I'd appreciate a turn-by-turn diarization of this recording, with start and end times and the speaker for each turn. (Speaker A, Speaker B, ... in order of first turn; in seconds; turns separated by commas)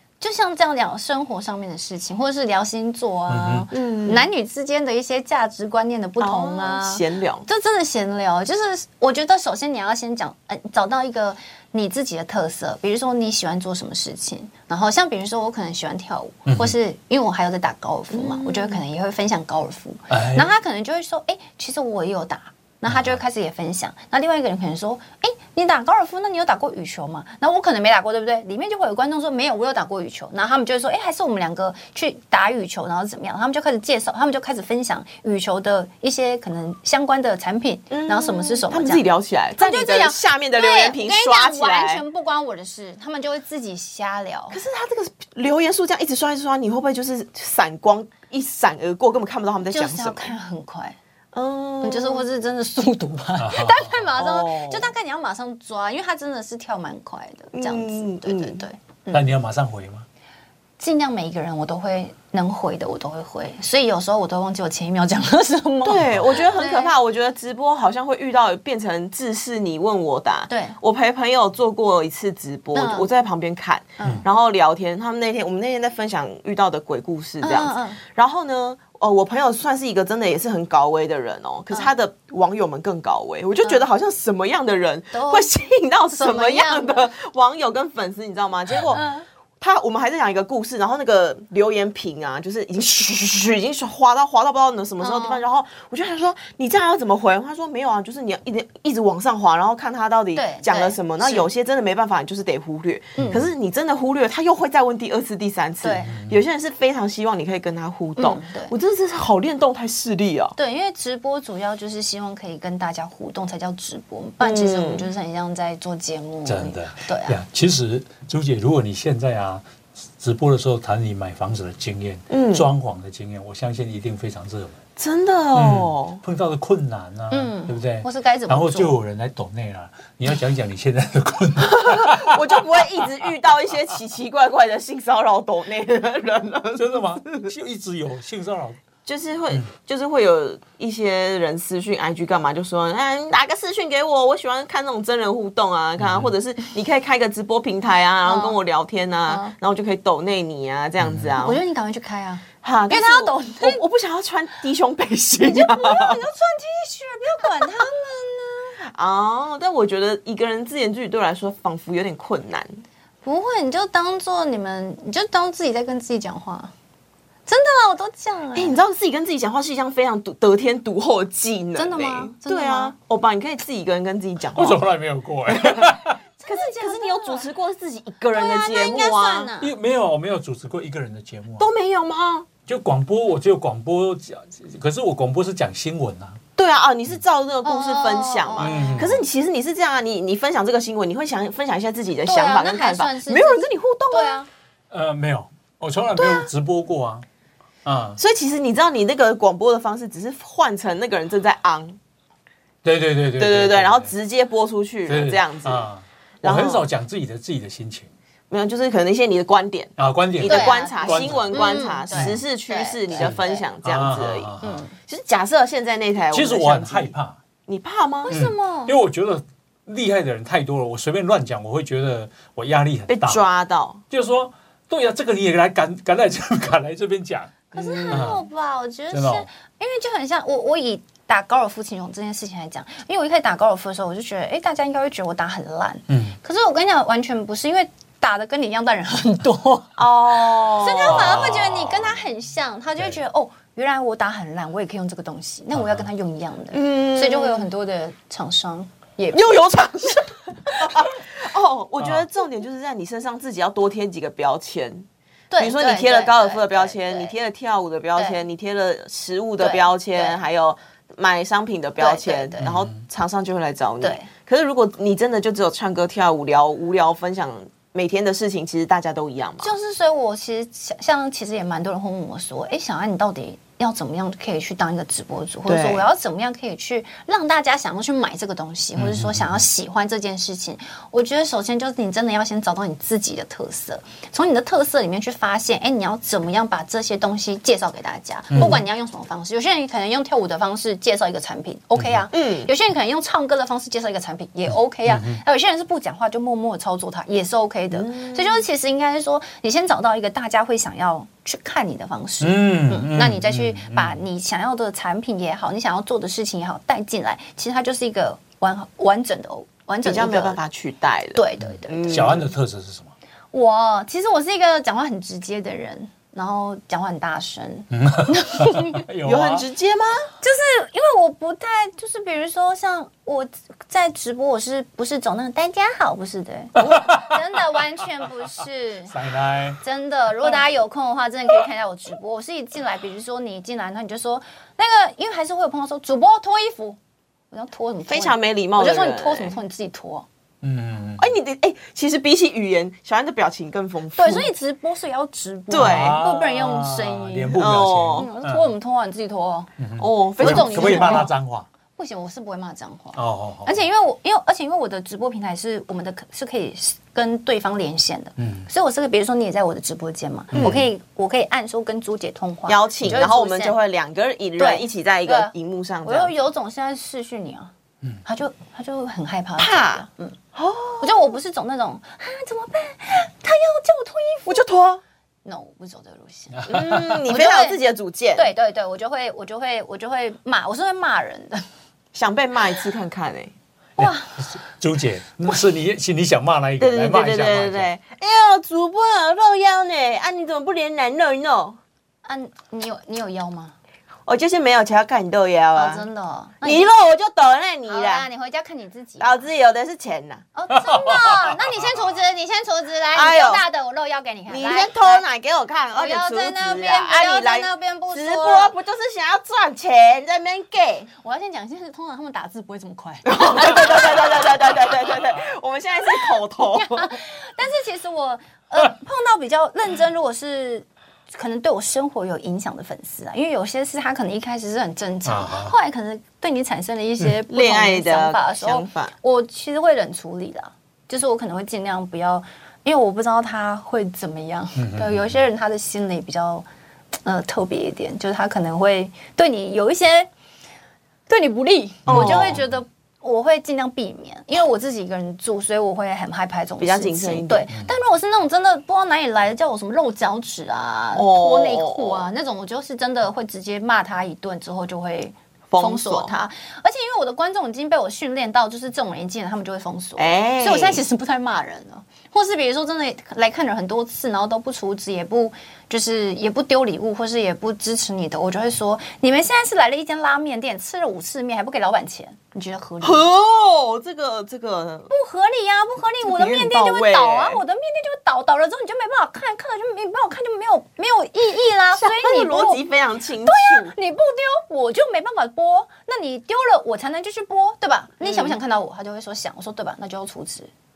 Speaker A: 0.2-39.0, Speaker B: 3.3-3.7, Speaker C: 3.7-4.2, Speaker C: 6.2-7.5, Speaker B: 16.4-16.7, Speaker C: 18.1-18.8, Speaker B: 20.1-20.5, Speaker B: 22.9-23.2, Speaker C: 37.9-42.0, Speaker A: 39.6-44.6, Speaker C: 44.5-50.3, Speaker A: 49.7-51.0, Speaker C: 51.3-52.2, Speaker A: 51.8-59.3, Speaker B: 53.4-54.0, Speaker C: 54.2-54.9, Speaker C: 57.5-58.6, Speaker B: 59.1-60.0, Speaker A: 60.8-66.9, Speaker C: 65.8-89.0, Speaker B: 66.0-66.5, Speaker A: 70.5-70.8, Speaker A: 72.7-73.1, Speaker A: 74.0-74.2, Speaker A: 77.4-78.0, Speaker A: 85.1-85.5, Speaker A: 86.1-87.1, Speaker A: 88.9-89.2, Speaker C: 89.6-110.5, Speaker A: 95.0-95.4, Speaker A: 100.3-101.5, Speaker A: 103.2-103.4, Speaker B: 103.2-103.4, Speaker A: 105.8-106.2, Speaker B: 106.1-106.4, Speaker A: 108.2-108.7, Speaker A: 110.6-117.4, Speaker C: 114.4-115.1, Speaker B: 116.5-124.8, Speaker C: 122.3-122.7, Speaker C: 125.0-126.2, Speaker B: 125.5-132.6, Speaker A: 127.3-129.0, Speaker C: 131.6-137.5, Speaker B: 136.7-138.8, Speaker C: 139.0-151.6, Speaker B: 146.0-146.3, Speaker A: 148.2-148.6, Speaker A: 149.3-149.5, Speaker B: 151.0-151.3, Speaker A: 151.4-153.8, Speaker C: 152.6-156.2, Speaker A: 155.4-158.8, Speaker C: 158.8-162.8, Speaker A: 163.2-166.7, Speaker A: 167.5-168.8, Speaker C: 168.5-174.8, Speaker A: 171.8-172.9, Speaker B: 174.5-176.2, Speaker A: 176.4-177.5, Speaker C: 176.5-179.5, Speaker A: 178.3-179.7, Speaker B: 179.6-181.7, Speaker C: 181.6-182.5, Speaker B: 182.7-186.4, Speaker C: 186.6-194.4, Speaker A: 187.6-189.2, Speaker B: 188.6-189.2, Speaker A: 192.2-194.5, Speaker B: 194.9-197.2, Speaker C: 196.2-196.5, Speaker B: 197.8-198.2, Speaker C: 198.2-202.0, Speaker B: 202.8-204.1, Speaker C: 203.4-205.9, Speaker B: 205.1-208.1, Speaker C: 206.4-206.8, Speaker C: 208.5-217.1, Speaker B: 210.0-212.4, Speaker A: 210.4-213.6, Speaker B: 213.2-214.8, Speaker A: 214.6-214.9, Speaker B: 216.3-217.4, Speaker C: 217.7-218.3, Speaker A: 218.2-218.9, Speaker B: 218.3-223.4, Speaker C: 223.1-224.0, Speaker B: 224.1-227.6, Speaker C: 227.7-228.3, Speaker A: 227.7-239.9, Speaker B: 228.1-228.4, Speaker B: 229.1-229.5, Speaker B: 236.1-236.4, Speaker C: 240.0-241.7, Speaker A: 240.6-249.6, Speaker B: 241.0-242.0, Speaker B: 245.7-246.1, Speaker C: 246.7-247.7, Speaker C: 249.3-255.1, Speaker A: 250.7-250.9, Speaker B: 252.0-252.2, Speaker A: 255.5-257.3, Speaker C: 255.6-269.7, Speaker A: 259.6-260.4, Speaker A: 262.0-262.6, Speaker B: 262.6-262.9, Speaker A: 264.0-264.3, Speaker A: 269.6-310.6, Speaker C: 275.6-276.1, Speaker B: 278.9-279.6, Speaker B: 288.5-288.8, Speaker B: 291.9-292.2, Speaker C: 292.3-292.7, Speaker B: 295.1-295.4, Speaker C: 297.9-298.6, Speaker B: 302.4-304.2, Speaker C: 310.0-312.5, Speaker A: 311.3-312.4, Speaker B: 311.6-313.1, Speaker A: 313.5-319.0, Speaker B: 317.9-319.7, Speaker C: 319.2-320.3, Speaker A: 320.4-329.1, Speaker B: 326.8-327.4, Speaker B: 329.1-329.8, Speaker A: 329.8-337.0, Speaker A: 337.5-340.2, Speaker C: 338.1-339.5, Speaker B: 340.6-341.3, Speaker C: 341.2-344.5, Speaker A: 344.1-349.7, Speaker C: 345.7-346.2, Speaker B: 345.7-348.7, Speaker C: 347.5-348.3, Speaker B: 349.8-351.7, Speaker C: 350.0-351.3, Speaker A: 350.4-351.3, Speaker A: 351.9-363.8, Speaker B: 353.1-353.8, Speaker B: 358.4-358.7, Speaker B: 360.5-360.9, Speaker C: 360.5-360.8, Speaker C: 362.7-366.3, Speaker A: 364.6-365.5, Speaker A: 366.0-367.7, Speaker A: 368.2-370.4, Speaker C: 369.6-371.3, Speaker A: 371.0-374.6, Speaker C: 374.4-375.0, Speaker A: 375.4-377.8, Speaker B: 376.5-377.2, Speaker C: 376.7-378.5, Speaker A: 378.4-381.7, Speaker C: 382.1-383.5, Speaker B: 384.0-387.9, Speaker A: 384.0-384.4, Speaker C: 386.8-391.8, Speaker A: 392.2-393.7, Speaker C: 394.3-396.0, Speaker A: 395.7-396.9, Speaker C: 396.6-398.3, Speaker A: 397.9-399.4, Speaker C: 399.2-400.4, Speaker A: 400.5-405.2, Speaker B: 400.7-401.8, Speaker C: 403.1-403.6, Speaker C: 404.5-411.1, Speaker A: 405.9-408.7, Speaker A: 411.2-414.5, Speaker C: 413.3-417.1, Speaker A: 416.7-436.6, Speaker B: 425.2-425.7, Speaker C: 427.5-429.1, Speaker B: 434.8-435.4, Speaker A: 437.2-440.3, Speaker A: 441.3-473.2, Speaker C: 442.1-442.6, Speaker B: 442.1-442.8, Speaker C: 446.8-447.7, Speaker C: 451.1-452.3, Speaker C: 455.7-456.3, Speaker C: 460.2-461.0, Speaker C: 473.0-475.1, Speaker A: 475.1-482.8, Speaker C: 476.2-477.6, Speaker C: 481.9-483.9, Speaker A: 483.4-490.7, Speaker C: 488.2-488.6